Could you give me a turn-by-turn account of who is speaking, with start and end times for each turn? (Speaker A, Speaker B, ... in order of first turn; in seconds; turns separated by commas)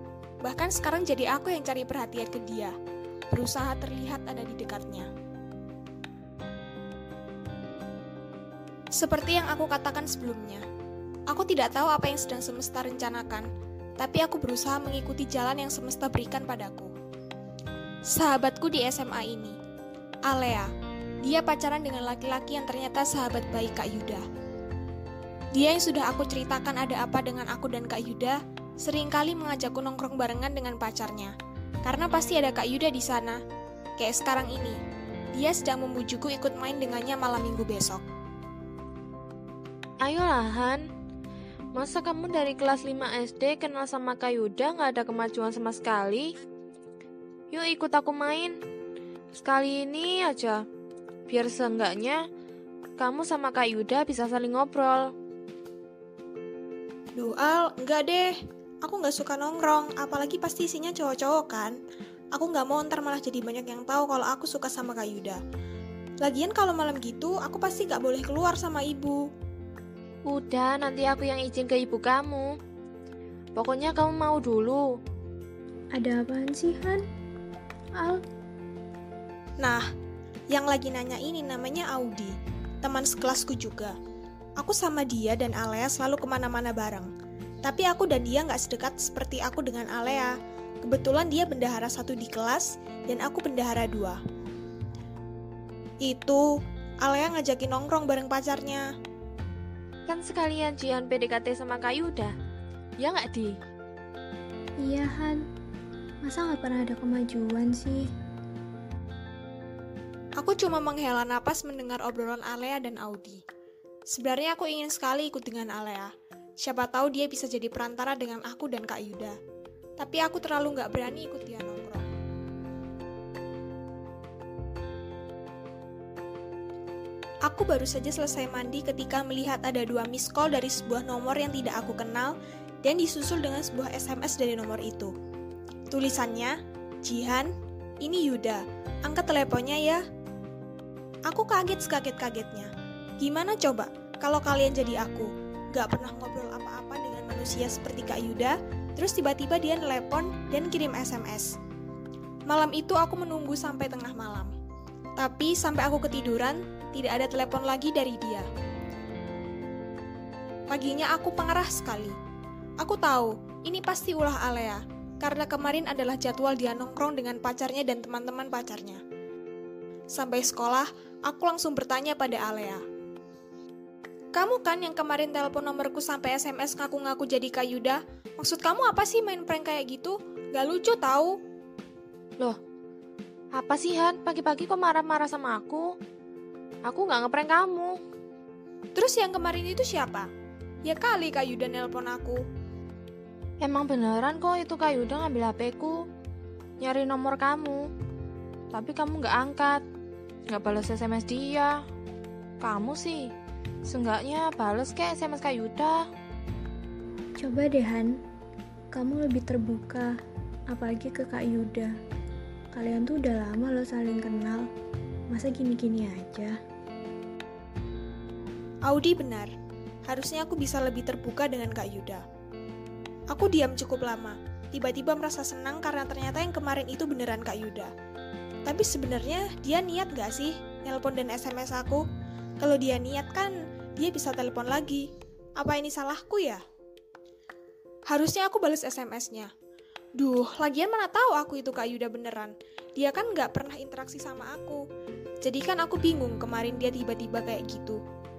Speaker A: 0.4-2.7, Speaker A: 3.3-5.1, Speaker A: 8.9-10.6, Speaker A: 11.3-13.5, Speaker A: 14.0-16.9, Speaker A: 18.1-19.6, Speaker A: 20.2-20.7, Speaker A: 21.2-24.2, Speaker A: 25.5-31.3, Speaker A: 31.8-33.4, Speaker A: 34.0-34.8, Speaker A: 35.3-38.0, Speaker B: 40.0-40.8, Speaker B: 41.7-46.4, Speaker B: 47.5-48.5, Speaker B: 49.3-50.6, Speaker B: 51.3-52.2, Speaker B: 53.0-55.1, Speaker A: 57.1-61.8, Speaker A: 62.3-65.4, Speaker A: 66.2-69.2, Speaker B: 70.3-72.5, Speaker B: 73.5-74.8, Speaker C: 75.9-77.0, Speaker A: 79.6-79.8, Speaker A: 80.5-83.9, Speaker A: 84.6-87.1, Speaker A: 87.6-94.2, Speaker A: 96.0-96.5, Speaker A: 97.0-98.8, Speaker B: 100.1-102.3, Speaker B: 103.0-103.5, Speaker C: 104.8-105.4, Speaker C: 106.2-108.1, Speaker A: 110.4-113.4, Speaker A: 114.1-119.3, Speaker A: 120.0-122.1, Speaker A: 127.5-135.1, Speaker A: 135.9-140.0, Speaker A: 141.3-151.6, Speaker A: 152.5-154.5, Speaker A: 155.2-158.4, Speaker A: 160.7-162.2, Speaker A: 162.8-169.0, Speaker A: 170.1-172.8, Speaker A: 174.3-181.4, Speaker B: 183.5-185.9, Speaker B: 186.8-188.0, Speaker A: 188.9-190.3, Speaker A: 190.8-192.4, Speaker B: 193.6-196.1, Speaker B: 196.8-197.9, Speaker B: 198.7-199.8, Speaker B: 200.5-201.8, Speaker B: 202.6-203.3, Speaker B: 203.8-206.1, Speaker C: 207.4-208.2, Speaker C: 208.9-210.2, Speaker C: 210.7-211.9, Speaker C: 212.7-214.7, Speaker C: 215.3-216.5, Speaker A: 218.8-219.5, Speaker A: 220.1-222.2, Speaker A: 223.3-227.9, Speaker A: 228.6-232.0, Speaker A: 232.6-236.6, Speaker A: 238.1-239.5, Speaker A: 240.2-244.8, Speaker A: 245.4-248.0